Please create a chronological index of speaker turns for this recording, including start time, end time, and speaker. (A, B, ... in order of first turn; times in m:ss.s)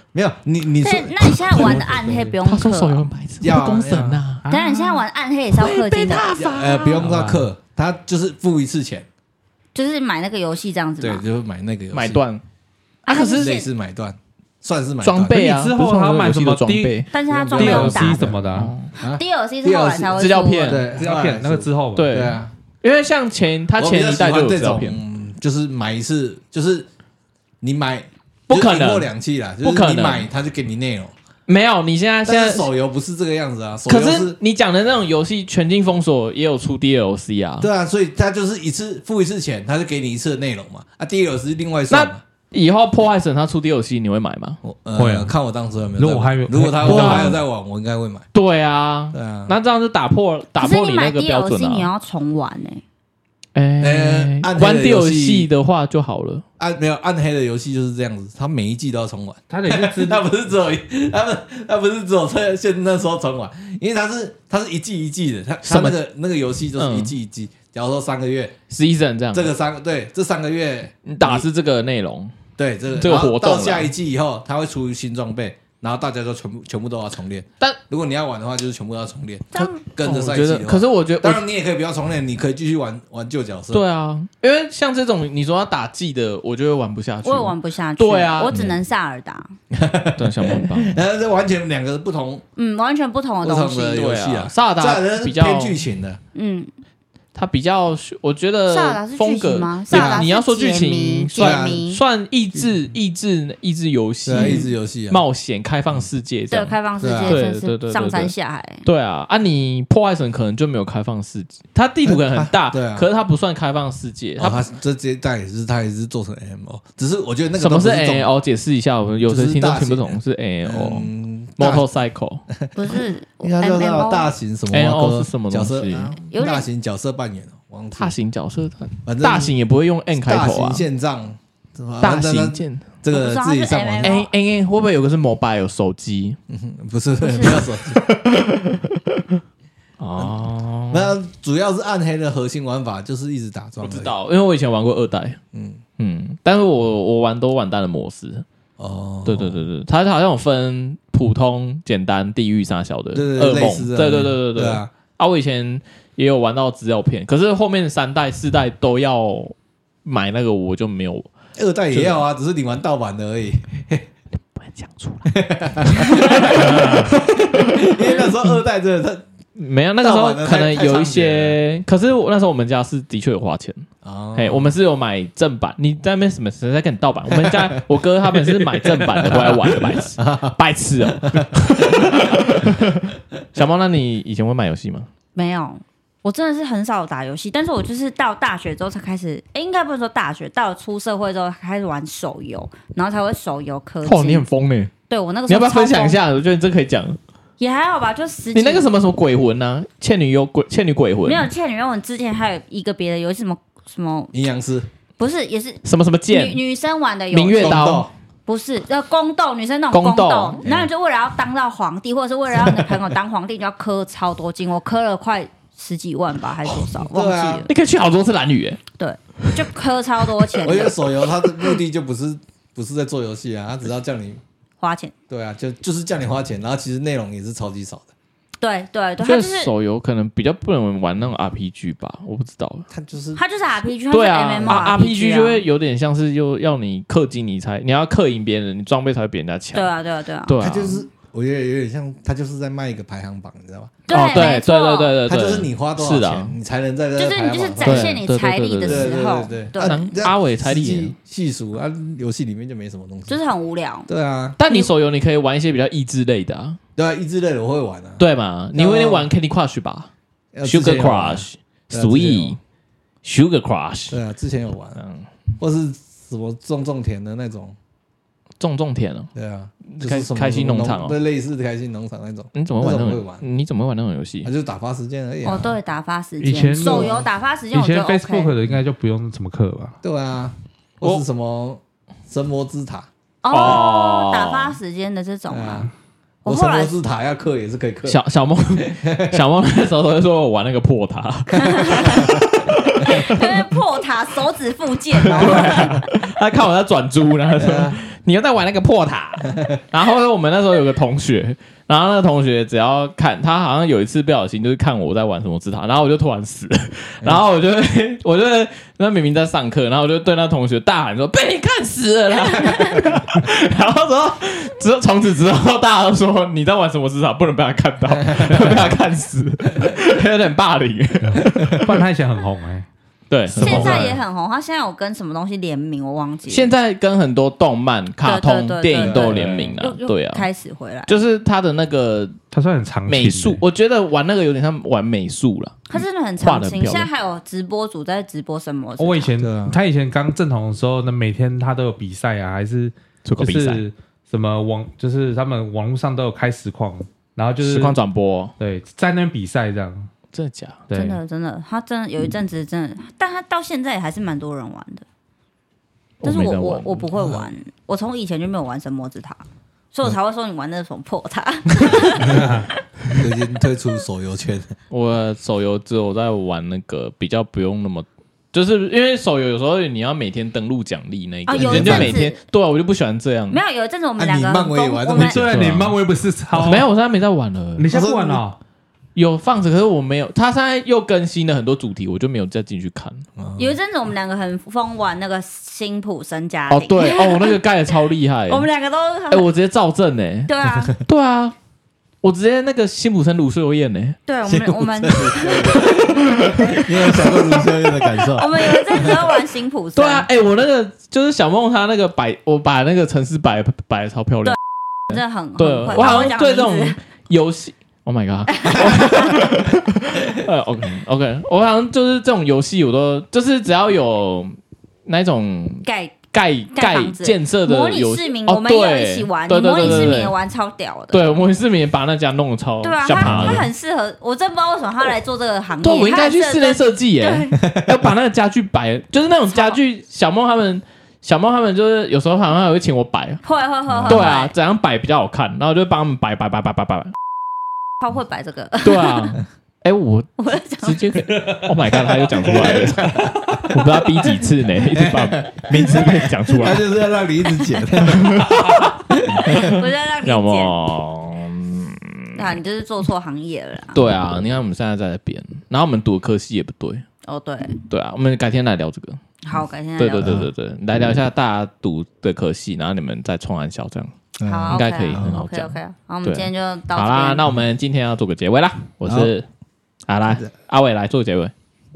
0:00.1-0:02.3 A
0:00.8-0:03.0 B
0:02.4-0:04.9 C
0:03.4-0:04.2 A
0:04.5-0:06.3 B
0:05.5-0:07.1 C
0:06.4-0:09.1 A
0:07.0-0:07.5 D
0:09.8-0:11.2 B
0:11.0-0:12.2 A
0:11.9-0:12.4 C
0:13.1-0:13.5 C
0:13.1-0:13.7 B
0:13.3-0:15.4 A
0:15.0-0:17.1 C
0:15.3-0:17.0 D
0:17.1-0:18.2 B
0:17.3-0:18.4 A
0:17.6-0:18.7 D
0:18.5-0:18.9 C
0:19.0-0:22.5 A
0:19.0-0:20.8 B
0:20.2-0:20.8 C
0:20.9-0:22.2 D
0:22.0-0:25.0 C
0:23.8-0:26.9 A
0:27.6-0:31.1 A
0:28.5-0:29.1 C
0:29.6-0:30.3 C
0:31.5-0:32.7 C
0:32.3-0:34.4 A
0:33.9-0:37.7 C
0:37.6-0:42.2 A
0:41.9-0:44.6 C
0:44.6-0:48.3 A
0:45.0-0:45.3 D
0:46.0-0:47.4 D
0:46.8-0:47.4 C
0:48.3-0:51.9 C
0:49.1-0:49.6 A
0:50.6-0:52.8 B
0:53.6-0:56.4 C
0:53.8-0:55.5 A
0:56.6-1:08.6 A
0:59.5-1:00.2 D
1:05.6-1:06.0 C
1:06.8-1:07.1 C
1:08.7-1:09.5 C
1:09.3-1:11.5 A
1:11.1-1:12.3 C
1:12.6-1:23.8 A
1:13.0-1:13.9 C
1:19.5-1:19.8 B
1:19.8-1:21.4 C
1:23.7-1:28.6 C
1:27.2-1:29.5 B
1:28.5-1:28.8 A
1:29.7-1:32.4 A
1:30.2-1:31.0 C
1:32.6-1:34.1 B
1:33.4-1:36.2 A
1:33.9-1:35.8 C
1:36.4-1:36.7 B
1:37.4-1:48.3 C
1:38.7-1:42.0 B
1:39.9-1:40.3 A
1:41.4-1:41.8 A
1:44.3-1:45.2 A
1:44.4-1:44.7 B
1:46.5-1:48.8 B
1:47.0-1:47.4 A
1:48.8-1:54.6 C
1:52.0-1:53.1 A
1:54.4-1:58.3 A
1:57.6-2:02.4 C
1:59.2-2:01.8 A
2:02.5-2:08.1 A
2:02.8-2:04.3 B
2:04.7-2:06.2 C
2:06.3-2:06.7 B
2:08.0-2:10.8 C
2:09.1-2:09.6 A
2:10.2-2:14.2 A
2:12.0-2:12.9 C
2:13.1-2:14.3 B
2:14.0-2:16.4 C
2:16.5-2:18.0 A
2:17.2-2:17.5 B
2:17.4-2:19.2 C
2:20.0-2:21.2 C
2:20.9-2:24.1 A
2:23.8-2:25.4 C
2:25.5-2:25.8 A
2:26.0-2:28.4 C
2:28.8-2:29.6 A
2:29.2-2:39.5 C
2:33.1-2:34.9 A
2:40.0-2:41.3 C
2:41.6-2:44.1 A
2:41.9-2:42.2 C
2:44.6-2:45.3 C
2:45.3-2:49.2 A
2:45.9-2:48.5 C
2:49.6-3:05.1 C
2:50.0-2:51.6 A
2:54.0-2:54.7 A
2:57.3-2:57.8 A
2:59.1-2:59.8 D
2:59.2-3:02.4 A
3:05.4-3:14.4 B
3:14.0-3:14.9 C
3:15.1-3:16.2 B
3:15.5-3:17.2 C
3:17.6-3:18.9 B
3:18.5-3:21.5 C
3:21.3-3:24.3 B
3:24.3-3:24.9 A
3:25.2-3:27.9 B
3:25.8-3:26.6 C
3:27.3-3:28.1 C
3:27.6-3:28.1 A
3:28.5-3:37.7 B
3:29.9-3:30.6 C
3:32.6-3:33.0 A
3:37.0-3:37.7 A
3:37.7-3:38.8 C
3:39.0-3:41.1 B
3:40.6-3:44.4 A
3:44.8-3:45.1 B
3:45.3-3:48.1 A
3:48.6-3:49.7 B
3:49.2-3:52.9 C
3:52.9-3:53.4 A
3:53.4-3:55.6 B
3:54.1-3:59.9 C
3:54.6-3:55.0 A
3:59.7-4:00.5 B
4:00.5-4:01.0 C
4:00.6-4:04.0 A
4:04.1-4:05.1 B
4:04.1-4:06.6 C
4:05.2-4:08.2 A
4:07.2-4:10.1 B
4:07.8-4:09.1 C
4:08.8-4:13.4 A
4:09.8-4:11.1 C
4:13.3-4:14.1 B
4:14.1-4:14.6 A
4:14.6-4:16.8 C
4:17.0-4:18.2 A
4:18.2-4:20.1 C
4:18.7-4:19.3 A
4:20.5-4:22.6 A
4:20.6-4:22.6 C
4:23.2-4:24.2 C
4:24.1-4:25.0 A
4:25.0-4:25.3 C
4:25.6-4:27.8 A
4:28.6-4:29.3 C
4:29.4-4:33.4 A
4:29.9-4:31.2 C
4:32.6-4:34.5 C
4:34.4-4:35.8 A
4:35.4-4:38.5 B
4:36.4-4:40.0 D
4:36.8-4:37.3 A
4:40.0-4:43.1 A
4:43.4-4:45.9 B
4:43.5-4:44.8 C
4:45.5-4:45.9 A
4:46.4-4:47.0 B
4:46.5-4:48.2 A
4:48.0-4:53.6 C
4:48.8-4:49.4 A
4:51.5-4:52.3 B
4:52.0-4:52.4 A
4:53.0-4:56.0 B
4:55.2-5:22.0 C
4:57.6-4:58.0 A
5:18.3-5:19.0 A
5:21.2-5:22.9 D
5:21.6-5:21.8 A
5:23.3-5:24.2 C
5:23.5-5:24.2 A
5:23.6-5:26.7 B
5:26.5-5:30.5 C
5:28.2-5:31.1 B
5:29.0-5:29.8 A
5:31.1-5:32.4 C
5:32.5-5:33.6 D
5:33.1-5:37.1 C
5:35.9-5:39.3 B
5:39.0-5:48.0 D
5:39.4-5:39.8 A
5:43.2-5:43.8 C
5:47.6-5:48.5 C
5:48.6-5:50.1 D
5:50.3-5:50.8 C
5:50.9-5:51.2 D
5:50.9-5:55.0 B
5:56.2-5:57.1 C
5:56.2-6:02.8 B
5:57.2-5:57.5 A
6:01.9-6:02.6 A
6:02.2-6:02.7 D
6:03.1-6:04.7 A
6:04.9-6:13.6 C
6:11.5-6:12.4 B
6:11.6-6:12.2 A
6:13.5-6:15.4 B
6:14.2-6:15.6 A
6:15.2-6:16.9 D
6:15.5-6:16.0 C
6:16.5-6:17.9 C
6:17.8-6:18.6 D
6:17.9-6:18.4 A
6:19.2-6:23.2 C
6:23.4-6:23.8 A
6:23.6-6:27.6 B
6:26.7-6:28.7 C
6:28.5-6:29.5 B
6:29.3-6:30.5 C
6:30.5-6:31.0 B
6:31.0-6:31.6 C
6:32.2-6:34.2 C
6:34.3-6:35.9 B
6:34.5-6:39.2 A
6:36.4-6:37.5 C
6:38.3-6:40.3 B
6:40.0-6:44.6 C
6:45.1-6:47.0 B
6:45.1-6:54.6 C
6:48.5-6:49.4 B
6:48.8-6:49.4 A
6:55.1-7:00.3 C
6:55.8-6:56.2 B
6:56.8-7:01.3 B
6:59.8-7:00.1 A
7:01.1-7:03.7 C
7:02.8-7:07.6 B
7:03.2-7:03.7 A
7:05.8-7:13.4 C
7:07.6-7:08.0 A
7:09.5-7:09.8 B
7:13.4-7:14.5 B
7:13.9-7:14.3 A
7:14.1-7:17.1 C
7:18.0-7:19.4 B
7:18.8-7:26.9 C
7:20.4-7:21.0 B
7:22.5-7:23.8 A
7:24.9-7:28.6 A
7:28.0-7:32.4 C
7:29.3-7:29.8 A
7:29.4-7:30.7 B
7:32.4-7:34.0 B
7:33.9-7:37.0 C
7:37.2-7:37.8 B
7:37.9-7:39.2 C
7:39.4-7:40.4 B
7:40.0-7:44.1 C
7:40.2-7:40.5 A
7:44.4-7:45.4 A
7:44.4-7:47.4 B
7:44.7-7:49.4 C
7:49.1-7:49.3 A
7:50.1-7:51.5 C